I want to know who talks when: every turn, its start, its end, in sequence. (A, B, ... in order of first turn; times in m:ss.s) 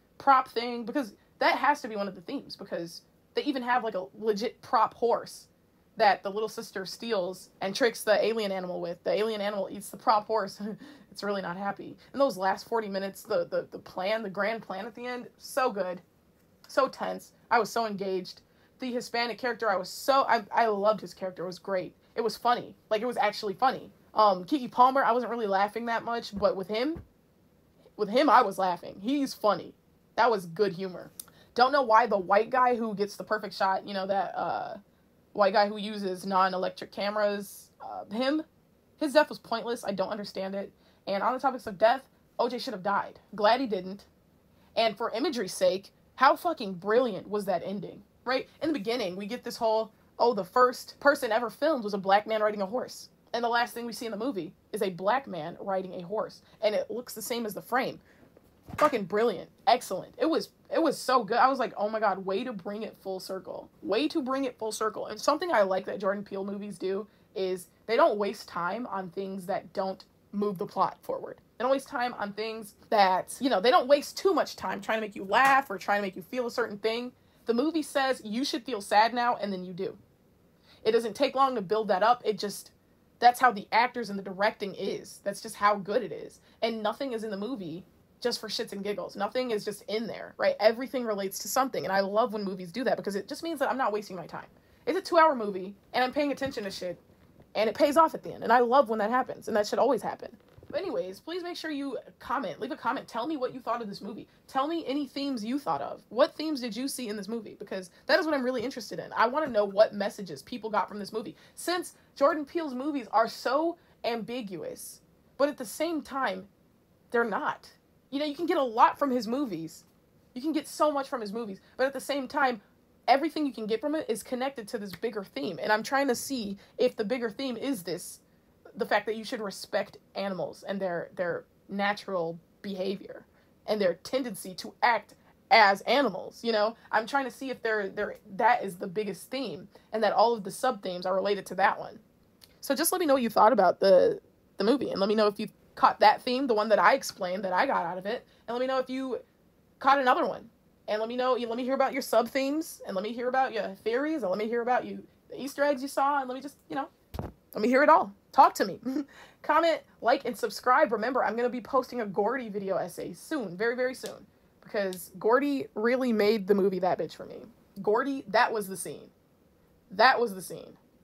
0:00.2-0:16.0 A
0:16.7-0:27.0 A
0:28.0-0:34.8 A
0:35.3-0:38.4 A
0:39.0-0:44.1 A
0:44.8-0:58.0 A
0:58.8-1:20.0 A
1:20.8-1:37.0 A
1:37.6-1:56.5 A
1:57.1-2:08.2 A
2:08.8-2:22.0 A
2:22.6-2:29.2 A
2:29.8-2:36.9 A
2:37.5-2:49.1 A
2:49.9-2:50.8 A